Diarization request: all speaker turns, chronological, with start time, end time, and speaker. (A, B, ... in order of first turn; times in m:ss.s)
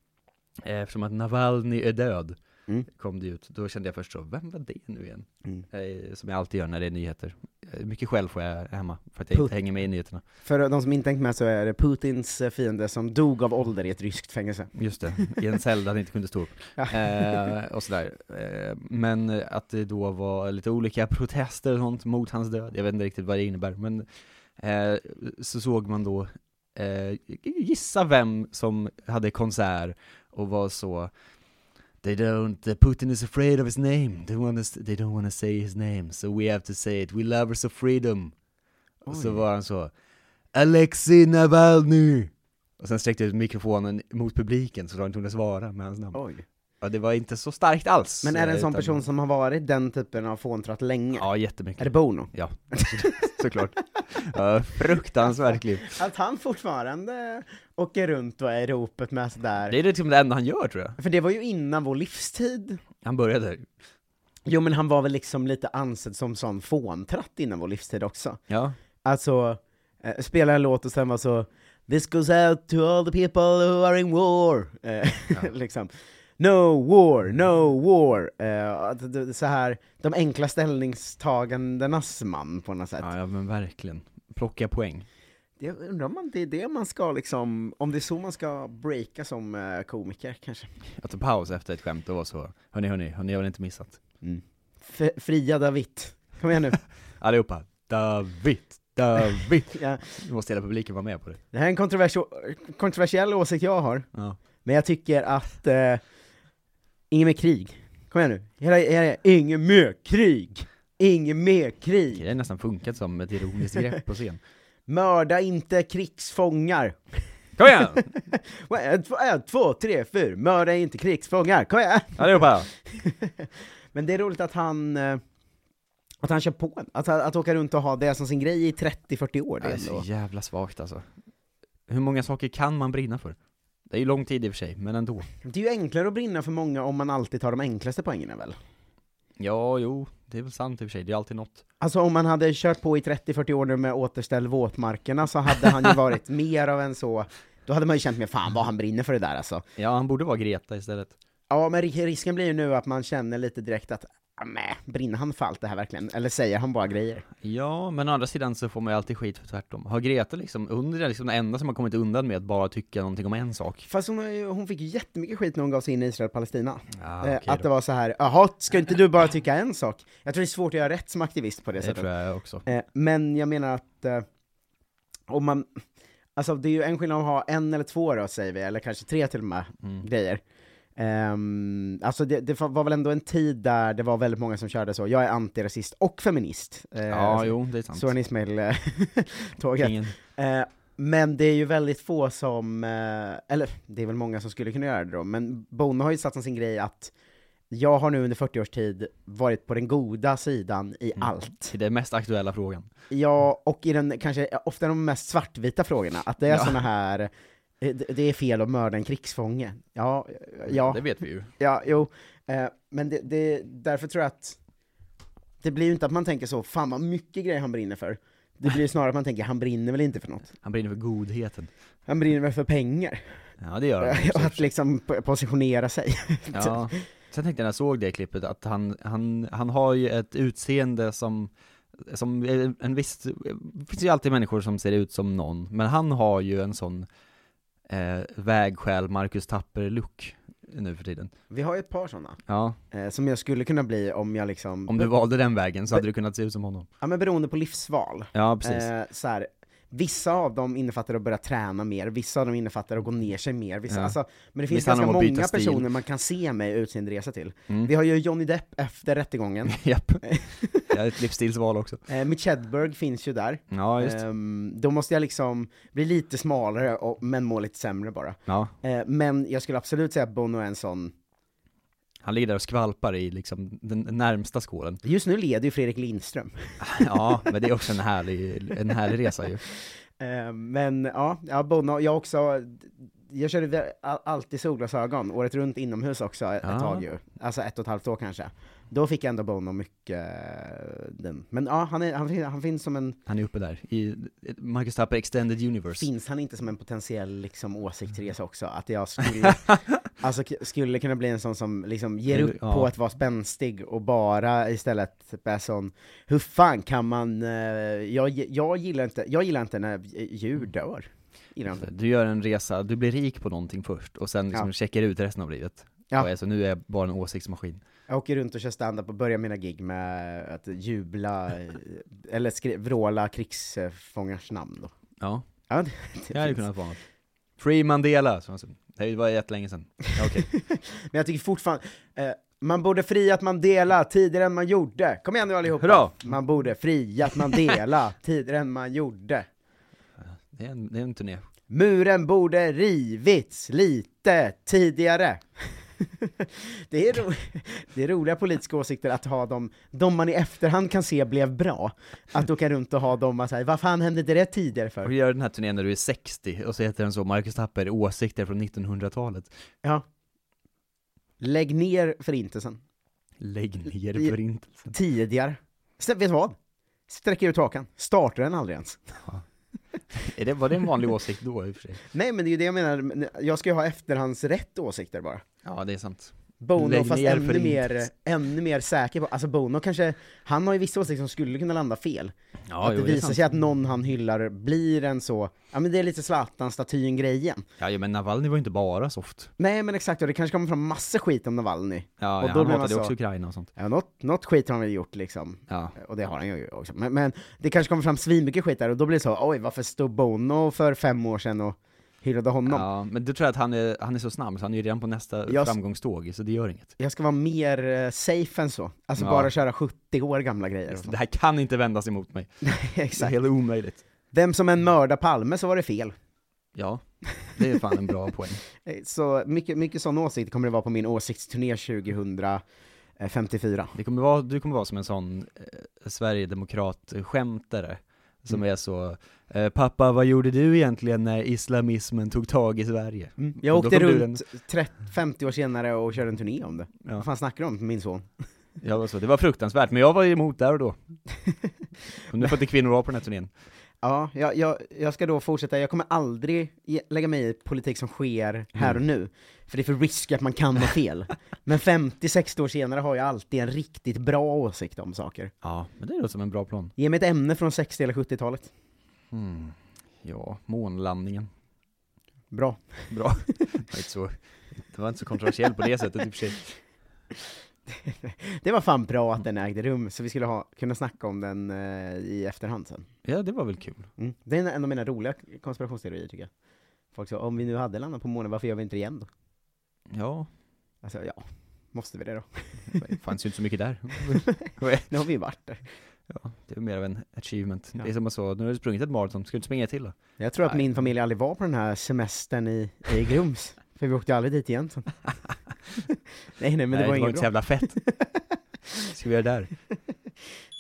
0:00.6-0:02.4 A
0:02.9-0:10.2 A
0:10.4-0:15.4 B
0:14.8-0:24.1 A
0:16.8-0:17.3 B
0:24.6-0:31.1 A
0:32.0-0:38.3 A
0:39.0-0:39.4 B
0:39.1-0:39.9 A
0:40.5-0:46.2 A
0:46.1-0:46.4 B
0:46.8-0:49.0 A
0:48.2-0:51.3 B
0:51.2-0:56.0 A
0:51.8-0:53.4 B
0:55.8-0:59.8 B
0:59.7-1:01.0 A
1:01.0-1:02.8 B
1:03.0-1:03.7 A
1:04.5-1:08.4 B
1:08.5-1:08.8 A
1:09.0-1:23.1 B
1:23.0-1:25.1 A
1:25.6-1:30.7 B
1:30.9-1:34.0 A
1:34.2-1:36.8 B
1:37.2-1:41.4 A
1:39.7-1:40.0 B
1:41.5-1:44.1 B
1:44.6-1:46.0 B
1:47.1-1:52.2 B
1:52.1-1:54.4 A
1:54.9-1:57.2 B
1:57.6-1:58.1 A
1:57.9-2:05.2 B
2:02.2-2:02.7 A
2:06.2-2:10.0 B
2:09.6-2:11.1 A
2:11.9-2:13.4 A
2:13.9-2:15.3 A
2:15.4-2:18.6 B
2:19.4-2:21.6 A
2:21.8-2:29.6 B
2:29.8-2:31.2 A
2:31.5-2:37.2 B
2:37.4-2:43.9 A
2:43.9-2:52.1 B
2:46.9-2:47.7 A
2:51.8-2:52.6 A
2:52.6-2:54.2 B
2:55.3-2:55.8 B
2:56.4-3:00.4 B
3:01.0-3:17.1 B
3:07.1-3:08.1 A
3:09.8-3:10.2 A
3:17.7-3:21.8 B
3:21.2-3:22.9 A
3:23.1-3:27.3 B
3:26.5-3:26.8 A
3:27.8-3:34.6 B
3:30.7-3:31.5 A
3:35.6-3:40.5 B
3:40.6-3:41.7 A
3:42.1-3:43.4 B
3:43.6-3:44.7 A
3:44.0-3:47.0 B
3:46.5-3:57.1 A
3:57.9-4:01.3 A
4:01.5-4:02.4 B
4:02.5-4:02.8 A
4:02.9-4:05.1 B
4:04.9-4:06.9 A
4:07.0-4:20.9 B
4:08.3-4:08.9 A
4:13.9-4:14.2 A
4:14.7-4:15.9 A
4:19.7-4:20.2 A
4:20.9-4:22.0 A
4:22.1-4:31.1 B
4:23.7-4:24.2 A
4:28.5-4:28.7 A
4:32.2-4:35.0 A
4:35.0-4:37.2 B
4:36.8-4:39.6 A
4:40.2-4:53.2 B
4:46.6-4:47.0 A
4:53.3-4:56.1 A
4:56.0-5:11.9 B
5:02.3-5:02.9 A
5:11.7-5:17.8 A
5:18.1-5:24.9 B
5:25.2-5:25.4 A
5:25.7-5:26.7 B
5:26.3-5:27.0 A
5:27.6-5:30.5 A
5:30.6-5:39.5 B
5:35.8-5:36.2 A
5:40.2-5:41.5 A
5:41.7-5:55.1 B
5:55.0-5:59.5 A
6:01.4-6:02.8 B
6:03.4-6:04.9 A
6:04.9-6:06.6 B
6:07.1-6:09.0 B
6:10.1-6:12.0 A
6:12.1-6:15.4 B
6:15.6-6:18.1 A
6:16.6-6:27.6 B
6:22.7-6:23.5 A
6:27.8-6:29.5 A
6:29.6-6:33.1 B
6:32.2-6:33.7 A
6:33.8-6:42.9 B
6:35.7-6:36.0 A
6:42.7-6:46.9 A
6:45.5-6:45.8 B
6:47.0-6:51.2 B
6:49.2-6:49.5 A
6:50.9-6:54.0 A
6:52.6-6:53.3 B
6:54.3-6:56.1 B
6:56.8-6:58.6 A
6:58.8-7:02.6 B
7:03.2-7:03.9 B
7:04.0-7:14.5 A
7:13.4-7:18.3 B
7:18.8-7:21.0 A
7:22.3-7:23.5 A
7:24.0-7:35.5 B
7:35.6-7:36.9 A
7:37.0-7:38.7 B
7:39.3-7:41.5 A
7:42.5-7:42.8 B
7:43.1-7:46.8 A
7:47.9-7:53.1 B
7:53.2-7:54.1 A
7:54.2-7:56.5 B
7:57.1-7:59.3 B
8:00.1-8:00.5 A
8:01.0-8:03.0 B
8:02.9-8:05.1 A
8:05.1-8:05.8 B
8:06.3-8:10.8 A
8:10.4-8:15.1 B
8:16.6-8:18.4 B
8:16.9-8:18.0 A
8:19.1-8:19.7 A